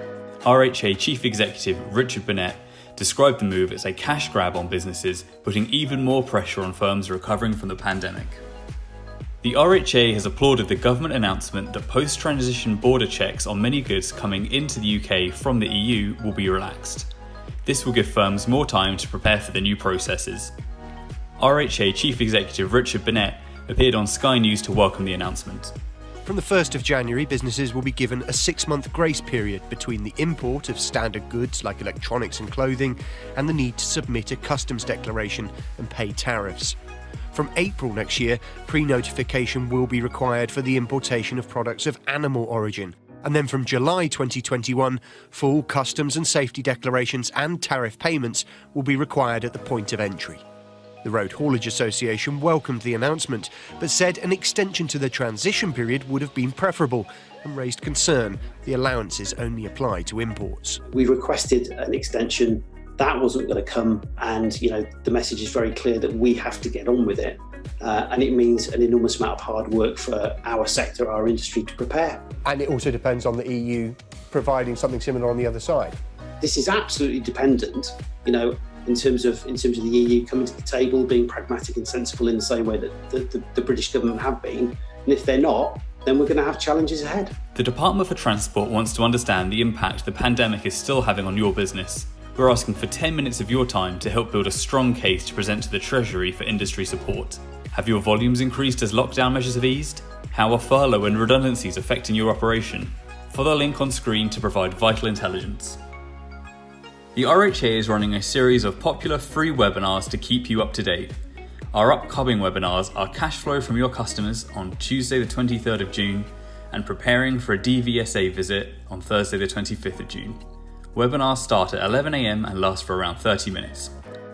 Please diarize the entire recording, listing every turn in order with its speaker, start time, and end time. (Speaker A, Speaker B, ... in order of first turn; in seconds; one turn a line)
Speaker A: 0.4-8.4
Speaker A: 9.4-17.1
Speaker A: 17.6-20.5
Speaker A: 21.4-25.7
Speaker B: 26.2-36.8
Speaker B: 37.3-50.4
Speaker B: 51.0-60.8
Speaker C: 60.9-72.2
Speaker B: 72.4-76.0
Speaker C: 76.4-87.3
Speaker A: 87.5-105.8
Speaker A: 107.1-111.1
Speaker A: 111.7-120.4
Speaker A: 120.9-123.9